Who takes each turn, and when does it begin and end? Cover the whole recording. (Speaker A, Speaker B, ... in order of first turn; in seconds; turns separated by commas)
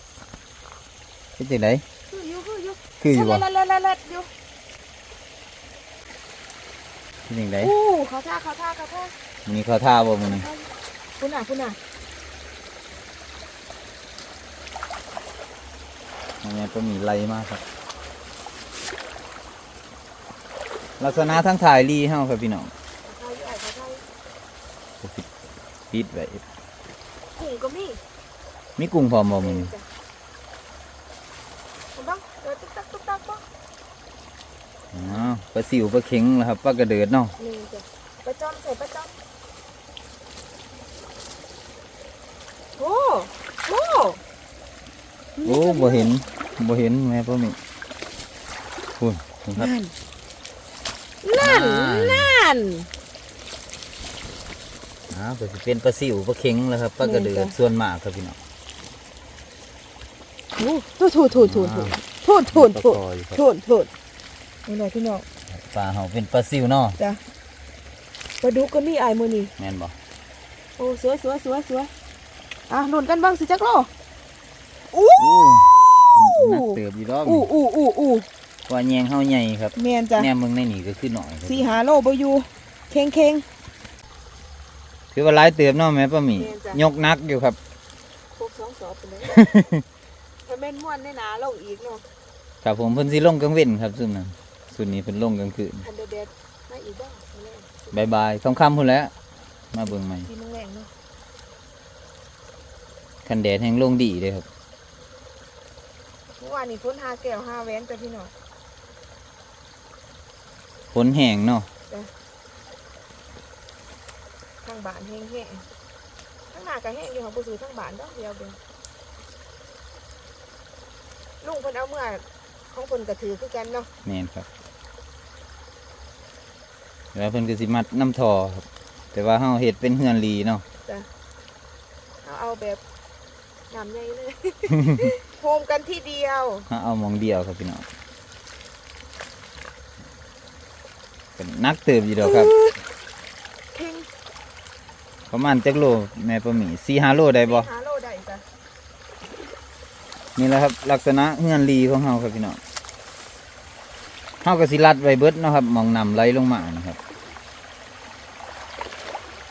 Speaker A: 1.4-1.8, Speaker B: 2.1-4.3, Speaker A: 3.0-3.5, Speaker A: 7.3-7.7, Speaker B: 7.6-9.1, Speaker A: 9.5-10.5, Speaker B: 10.3-11.8, Speaker A: 16.4-17.6, Speaker A: 21.0-22.7, Speaker B: 21.0-21.4, Speaker B: 23.1-24.0, Speaker A: 25.9-26.4, Speaker B: 27.4-28.0, Speaker A: 28.8-29.7, Speaker B: 29.4-29.8, Speaker B: 31.9-33.4, Speaker A: 34.9-37.3, Speaker B: 35.0-35.4, Speaker B: 37.4-39.1, Speaker B: 42.8-44.2, Speaker B: 45.4-46.1, Speaker A: 45.4-47.6, Speaker A: 49.0-49.7, Speaker B: 49.6-49.9, Speaker B: 51.2-52.9, Speaker A: 51.4-52.3, Speaker A: 55.1-58.4, Speaker B: 57.0-57.5, Speaker B: 60.6-63.9, Speaker A: 61.3-62.0, Speaker A: 62.5-63.4, Speaker B: 64.7-65.2, Speaker A: 65.5-67.0, Speaker B: 68.4-69.5, Speaker A: 69.6-70.0, Speaker B: 70.8-71.9, Speaker B: 72.7-73.9, Speaker B: 74.9-78.3, Speaker A: 75.2-77.5, Speaker A: 78.7-81.7, Speaker B: 79.8-80.3, Speaker B: 81.5-83.5, Speaker A: 85.1-87.6, Speaker B: 86.3-86.8, Speaker B: 88.4-89.5, Speaker A: 89.3-89.8, Speaker B: 90.5-92.0, Speaker A: 92.6-95.8, Speaker B: 95.8-98.0, Speaker A: 97.9-99.1, Speaker A: 99.7-100.3, Speaker B: 99.8-100.9, Speaker A: 103.2-104.5, Speaker B: 106.4-108.3, Speaker A: 110.9-111.7, Speaker B: 114.6-115.7, Speaker B: 116.5-118.6, Speaker B: 121.4-123.9, Speaker A: 124.0-124.5, Speaker A: 127.1-130.6, Speaker B: 132.2-132.8, Speaker B: 133.7-136.7, Speaker A: 134.7-135.1, Speaker A: 136.7-137.8, Speaker A: 141.4-142.5, Speaker B: 142.2-142.8, Speaker B: 143.7-144.1, Speaker A: 145.3-147.7, Speaker B: 147.4-148.4, Speaker A: 150.3-152.6, Speaker A: 154.4-157.0